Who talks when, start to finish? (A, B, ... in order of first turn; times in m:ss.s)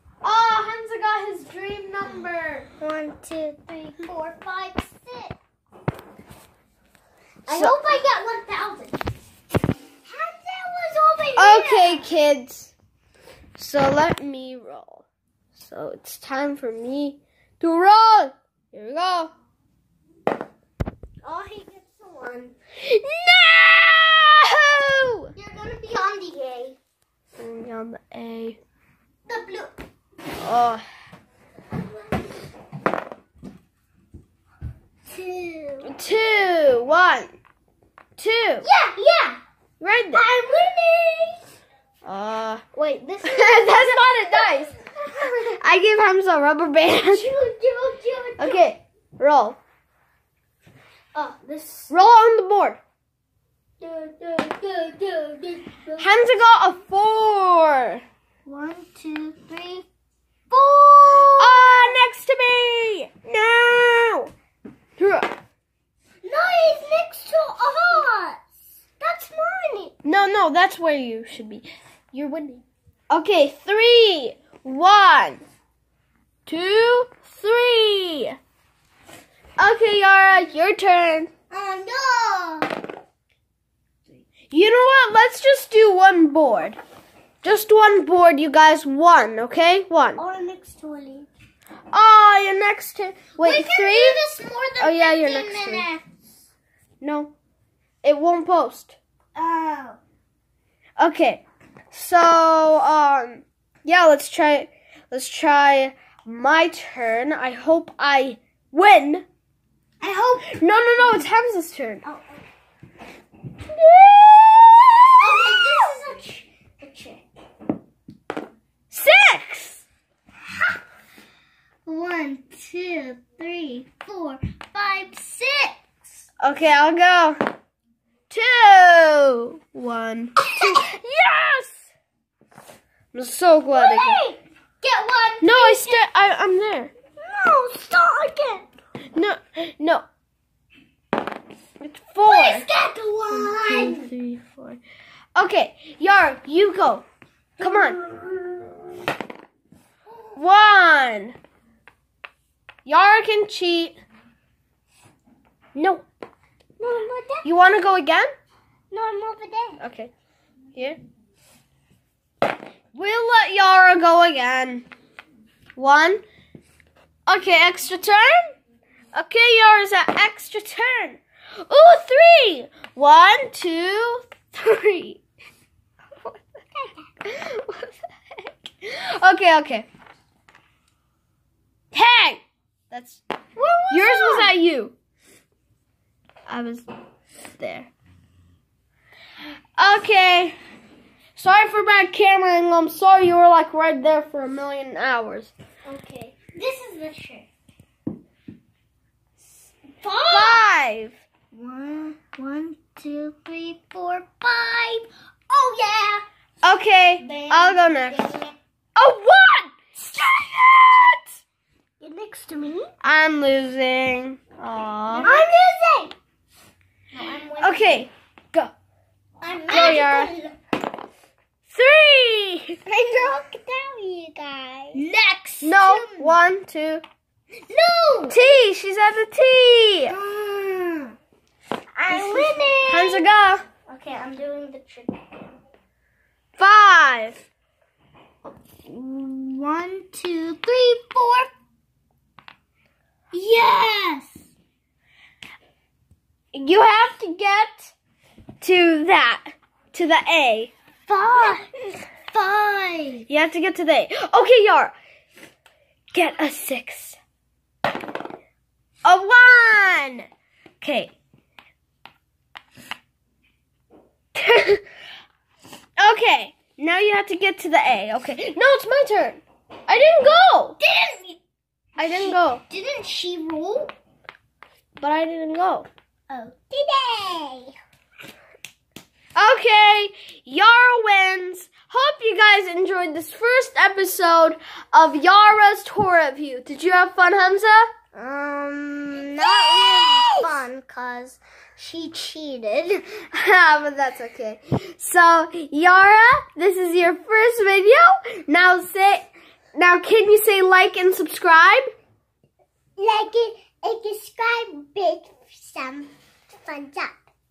0:00.2-0:02.7 A
0:02.8-0:05.4 B
0:07.5-0:09.0 B
0:07.5-0:07.8 A
0:10.1-0:12.1 B
0:11.4-0:12.7 A
0:13.6-0:19.3 A
0:21.2-0:22.6 B
0:22.8-0:25.3 A
0:25.4-0:26.8 B
0:27.4-0:28.6 A
0:29.3-0:29.8 B
0:30.4-0:30.8 A
0:35.1-0:35.9 B
0:35.8-0:37.3 A
0:38.2-0:38.7 A
0:38.6-0:39.4 B
0:39.8-0:40.2 A
0:40.1-0:41.6 B
0:42.0-0:42.6 A
0:42.7-0:45.6 B
0:43.2-0:44.7 A
0:45.6-0:47.3 A
0:47.0-0:48.7 B
0:48.4-0:49.6 A
0:51.1-0:51.9 B
0:51.9-0:52.8 A
0:53.8-0:56.2 B
0:56.0-0:58.0 A
0:58.5-0:59.9 B
1:00.5-1:02.0 B
1:01.3-1:04.3 A
1:05.0-1:05.3 A
1:06.2-1:08.4 B
1:09.0-1:09.9 B
1:10.0-1:15.4 A
1:16.5-1:18.4 A
1:19.6-1:21.3 A
1:21.5-1:22.8 B
1:24.5-1:26.8 A
1:27.4-1:30.2 A
1:30.2-1:31.3 B
1:31.9-1:34.3 A
1:33.4-1:36.0 B
1:34.8-1:35.9 A
1:37.0-1:37.3 A
1:38.0-1:39.0 A
1:39.4-1:40.0 B
1:41.0-1:49.3 A
1:50.0-1:51.2 B
1:50.4-1:52.0 A
1:52.0-1:52.4 B
1:53.7-1:56.0 A
1:55.2-1:57.2 B
1:58.9-1:59.8 A
2:01.8-2:05.9 B
2:06.4-2:07.4 A
2:08.3-2:11.9 A
2:10.6-2:10.8 B
2:13.1-2:14.2 A
2:13.7-2:16.0 B
2:15.4-2:16.9 A
2:17.2-2:18.7 B
2:19.2-2:20.0 A
2:21.8-2:22.7 A
2:22.2-2:24.1 B
2:23.3-2:24.8 A
2:25.4-2:27.1 A
2:27.6-2:28.0 A
2:27.6-2:28.7 B
2:30.4-2:31.4 A
2:32.8-2:34.0 A
2:35.8-2:36.0 A
2:36.8-2:37.5 B
2:37.4-2:38.3 A
2:38.9-2:39.8 B
2:39.8-2:40.1 A
2:42.9-2:44.9 A
2:45.8-2:46.2 A
2:47.3-2:48.5 A
2:49.1-2:55.2 A
2:57.2-2:59.9 A
3:01.9-3:03.2 A
3:03.6-3:04.6 B
3:03.9-3:05.0 A
3:06.5-3:06.9 A
3:07.6-3:07.9 A
3:09.8-3:10.6 A
3:11.4-3:15.5 A
3:15.8-3:17.5 B
3:20.0-3:20.7 B
3:20.3-3:21.2 A
3:21.5-3:26.2 B
3:26.6-3:28.3 A
3:27.2-3:28.5 B
3:29.0-3:31.2 A
3:32.0-3:32.9 B
3:33.0-3:35.3 A
3:35.2-3:36.1 B
3:37.1-3:38.0 B
3:37.6-3:38.7 A
3:39.4-3:40.6 B
3:39.7-3:40.3 A
3:41.7-3:42.8 A
3:42.9-3:46.4 B
3:45.6-3:47.0 A
3:47.7-3:48.4 B
3:48.3-3:50.2 A
3:50.1-3:51.2 B
3:52.0-3:53.3 B
3:52.1-3:53.6 A
3:53.9-3:55.4 B
3:56.6-3:57.5 A
3:58.9-4:01.5 B
4:03.3-4:04.5 B
4:06.5-4:07.9 A
4:08.6-4:10.7 A
4:11.1-4:13.3 B
4:13.3-4:15.0 A
4:16.1-4:17.2 A
4:19.0-4:20.3 A
4:20.8-4:21.1 A
4:24.4-4:24.8 A
4:26.0-4:30.8 A
4:30.8-4:31.4 B
4:32.0-4:32.6 A
4:32.0-4:33.9 B
4:35.0-4:35.9 A
4:36.3-4:37.8 B
4:39.4-4:47.9 A
4:48.1-4:53.1 B
4:49.4-4:50.5 A
4:53.3-5:01.9 A
5:03.0-5:07.2 B